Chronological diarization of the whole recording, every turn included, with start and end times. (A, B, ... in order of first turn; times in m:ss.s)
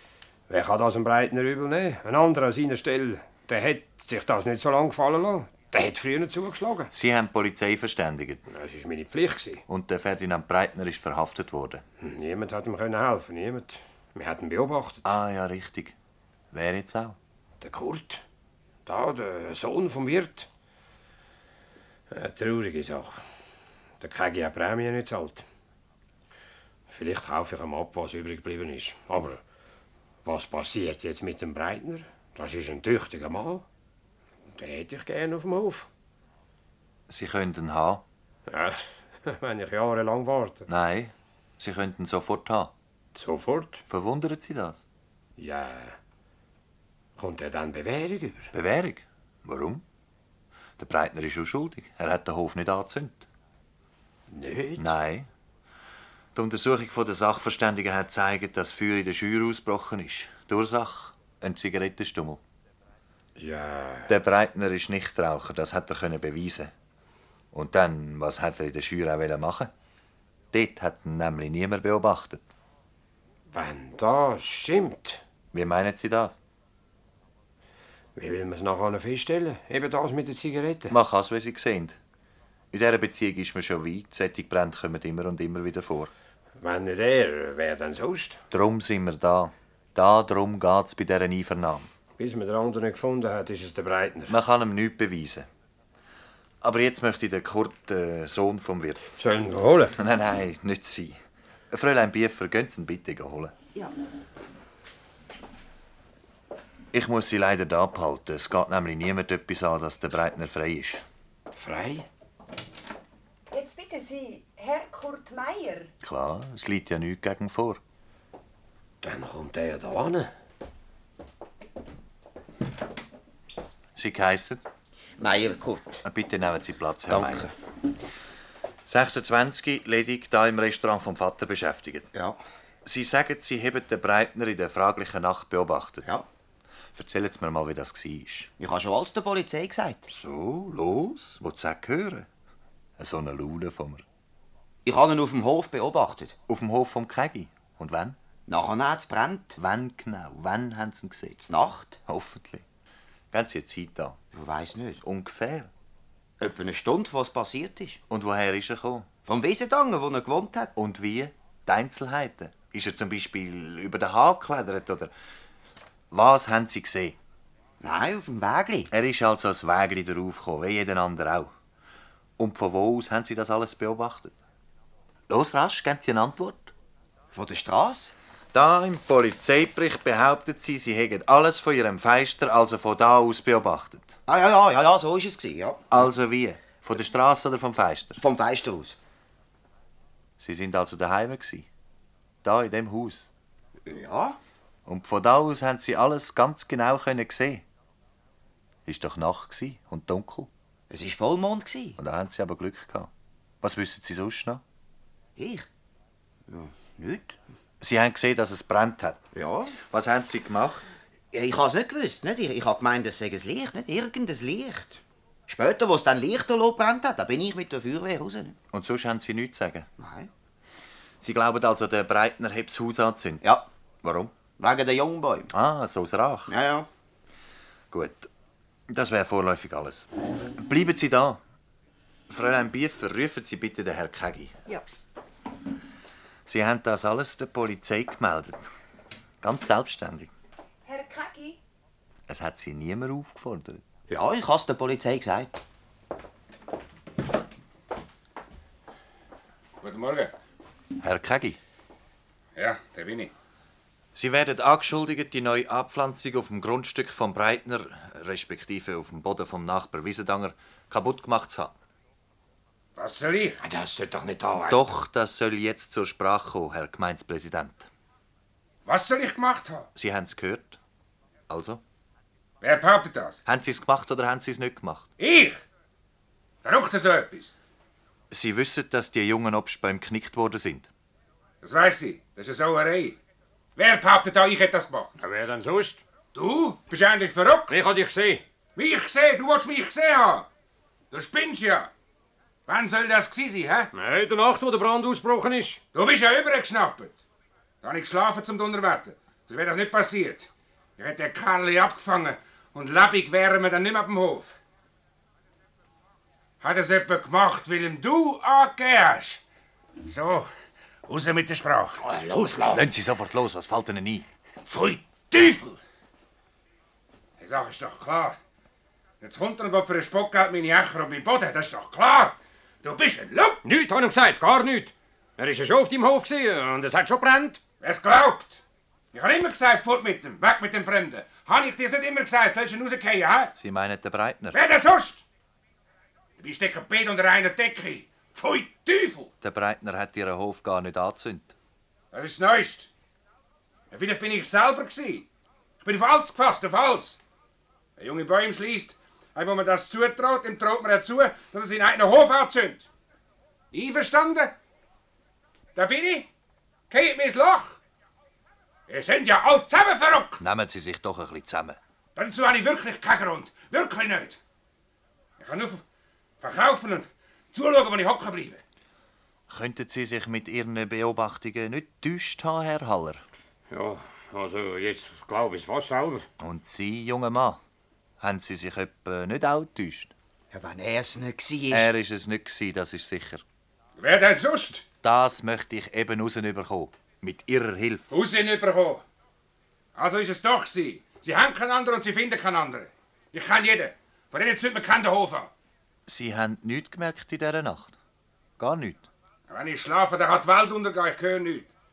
0:00.5-0:06.9 A
0:06.9-0:08.4 B
0:08.5-0:09.6 A
0:09.7-0:11.8 B
0:12.0-0:15.0 A
0:15.0-0:16.0 B
0:16.5-0:17.2 B
0:17.6-0:18.2 A
0:18.8-0:20.5 A
0:22.1-0:23.2 A
0:24.0-0:25.4 A
0:26.9-0:29.4 A
0:30.2-0:33.6 A
0:34.5-0:35.9 A
0:37.1-0:38.0 B
0:38.5-0:40.7 A
0:40.7-0:42.7 B
0:43.1-0:43.8 A
0:43.9-0:44.8 B
0:45.4-0:46.0 A
0:47.2-0:48.5 A
0:48.5-0:49.8 B
0:50.8-0:53.2 B
0:54.3-0:54.9 A
0:54.8-0:55.3 B
0:56.3-1:02.4 B
1:03.4-1:04.1 A
1:04.1-1:06.7 B
1:07.5-1:09.7 B
1:10.5-1:12.4 B
1:13.5-1:15.2 A
1:15.5-1:16.4 B
1:18.2-1:20.9 A
1:20.9-1:22.0 B
1:22.7-1:26.1 B
1:26.6-1:28.4 A
1:28.5-1:31.9 B
1:32.2-1:34.4 A
1:34.3-1:35.5 B
1:36.6-1:39.0 B
1:39.1-1:40.0 A
1:39.9-1:41.2 B
1:41.7-1:43.5 B
1:46.9-1:51.0 B
1:51.5-1:52.1 A
1:53.5-1:55.9 C
1:56.0-1:57.8 B
1:59.0-2:00.3 A
2:04.0-2:04.6 B
2:05.2-2:06.0 D
2:06.0-2:07.5 B
2:07.1-2:07.5 D
2:08.8-2:12.1 B
2:12.1-2:12.4 D
2:12.8-2:16.0 B
2:16.9-2:18.5 B
2:18.6-2:20.1 D
2:20.1-2:22.3 B
2:23.0-2:24.0 B
2:24.8-2:26.3 D
2:26.5-2:28.2 B
2:28.5-2:29.6 D
2:29.6-2:31.4 B
2:31.4-2:32.0 D
2:32.0-2:32.6 B
2:33.3-2:34.2 B
2:34.3-2:35.0 D
2:35.0-2:35.7 B
2:36.4-2:38.0 D
2:38.1-2:39.1 B
2:39.2-2:40.7 D
2:40.7-2:45.1 B
2:46.1-2:47.2 B
2:47.8-2:48.9 D
2:48.9-2:51.5 B
2:52.4-2:54.3 B
2:55.3-2:56.7 B
2:57.3-2:58.1 D
2:58.5-3:04.2 B
3:04.3-3:05.9 D
3:05.9-3:08.2 B
3:08.2-3:09.0 D
3:10.4-3:11.7 B
3:12.4-3:13.3 B
3:13.9-3:14.4 D
3:14.8-3:17.6 B
3:18.8-3:20.5 B
3:20.9-3:22.0 D
3:22.0-3:23.1 B
3:23.6-3:24.6 B
3:25.4-3:25.7 D
3:26.5-3:27.4 D
3:27.8-3:29.2 B
3:29.3-3:29.8 D
3:29.8-3:30.8 B
3:31.3-3:38.6 D
3:38.7-3:39.9 B
3:40.0-3:40.3 D
3:41.2-3:43.4 B
3:44.0-3:44.4 B
3:44.6-3:45.5 D
3:45.5-3:46.5 B
3:46.5-3:46.9 D
3:47.9-3:48.3 B
3:48.9-3:51.4 B
3:52.3-3:54.6 B
3:56.5-3:58.7 B
3:59.4-4:00.3 B
4:00.8-4:01.6 C
4:02.3-4:03.8 B
4:04.1-4:05.6 D
4:09.8-4:10.3 E
4:11.0-4:11.6 B
4:12.6-4:13.3 E
4:14.1-4:21.7 B
4:23.0-4:23.6 E
4:23.6-4:24.8 A
4:24.6-4:27.9 B
4:28.8-4:29.9 E
4:30.0-4:30.8 B
4:31.5-4:31.8 B
4:32.6-4:33.4 E
4:33.4-4:35.1 B
4:35.2-4:35.6 E
4:36.6-4:37.5 E
4:38.3-4:40.9 B
4:41.6-4:43.2 E
4:43.8-4:45.1 E
4:45.2-4:46.0 A
4:46.3-4:47.7 E
4:47.7-4:48.4 A
4:48.8-4:50.5 E
4:51.1-4:51.9 E
4:52.7-4:53.9 E
4:53.9-4:55.8 A
4:55.9-4:57.1 E
4:57.8-5:04.5 E
5:06.6-5:09.4 E
5:10.0-5:10.5 E
5:11.1-5:12.8 E
5:12.7-5:14.2 B
5:14.6-5:15.8 E
5:17.4-5:18.4 E
5:19.2-5:23.6 E
5:23.6-5:27.6 A
5:27.8-5:28.6 E
5:29.1-5:33.5 E
5:33.6-5:34.6 B
5:34.5-5:35.2 E
5:36.4-5:39.3 E
5:39.4-5:41.5 B
5:42.1-5:42.9 E
5:43.9-5:45.3 E
5:45.8-5:47.2 E
5:48.0-5:52.9 E
5:53.7-5:54.5 E
5:55.7-5:56.3 E
5:56.9-5:57.8 E
5:58.9-6:00.4 E
6:00.4-6:01.8 B
6:02.2-6:04.4 E
6:05.4-6:05.8 E
6:06.4-6:08.6 E
6:09.5-6:13.2 B
6:13.7-6:16.3 A
6:16.4-6:17.6 B
6:18.2-6:20.1 B
6:20.5-6:21.9 D
6:21.7-6:23.4 B
6:24.0-6:24.8 E
6:25.0-6:28.1 B
6:28.1-6:29.0 E
6:30.0-6:35.5 E
6:36.1-6:38.0 B
6:38.6-6:39.1 B
6:39.5-6:41.7 E